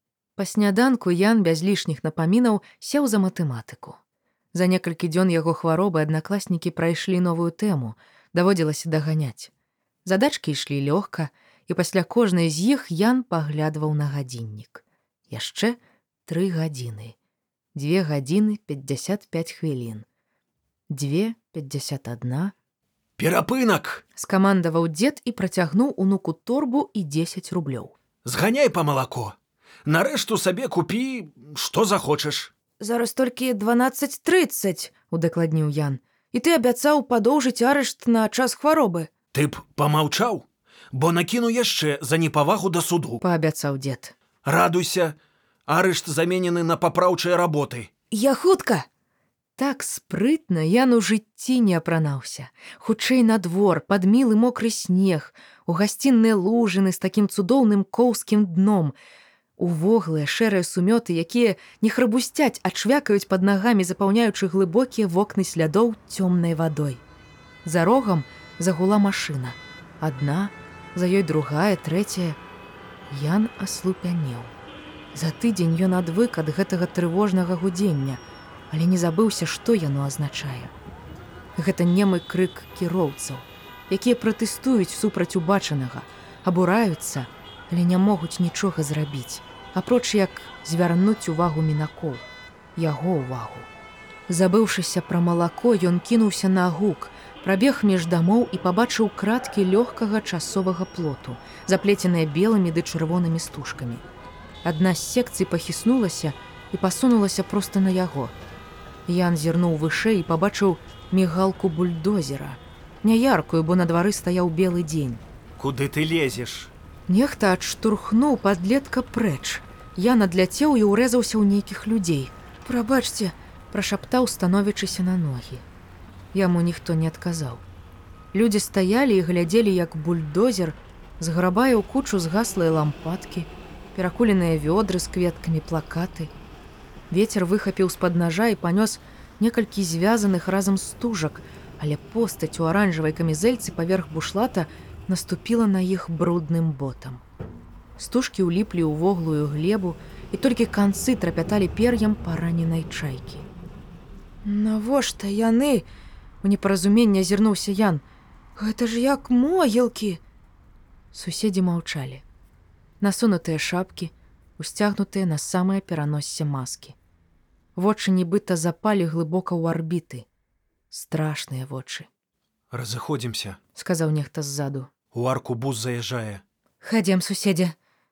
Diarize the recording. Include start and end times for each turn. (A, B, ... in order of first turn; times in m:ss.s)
0:00.4-0:04.0 A
0:04.5-0:09.5 A
0:10.0-0:17.2 A
0:17.8-0:20.1 A
0:20.9-0:22.5 A
0:23.2-0:24.0 B
0:24.2-0:27.9 A
0:28.2-0:32.5 B
0:32.8-0:39.1 A
0:39.3-0:43.2 B
0:43.2-0:44.2 A
0:44.4-0:45.2 B
0:45.7-0:47.9 B
0:48.1-0:48.9 A
0:49.6-0:59.0 A
0:59.6-1:07.0 A
1:07.6-1:12.4 A
1:13.1-1:14.5 A
1:15.1-1:20.7 A
1:21.6-1:32.2 A
1:32.8-1:33.7 A
1:34.3-1:44.0 A
1:44.6-1:48.4 A
1:49.1-1:55.2 A
1:55.6-1:56.7 B
1:57.1-2:05.6 A
2:06.3-2:07.6 A
2:08.3-2:16.3 A
2:17.1-2:27.2 A
2:28.0-2:33.5 A
2:34.4-2:35.9 A
2:36.4-2:38.0 A
2:38.6-2:40.2 A
2:41.1-2:42.2 A
2:43.0-2:47.0 A
2:47.8-2:50.3 A
2:50.9-2:52.1 A
2:52.7-2:53.6 B
2:53.8-2:54.9 A
2:55.1-2:56.4 B
2:56.8-2:57.8 A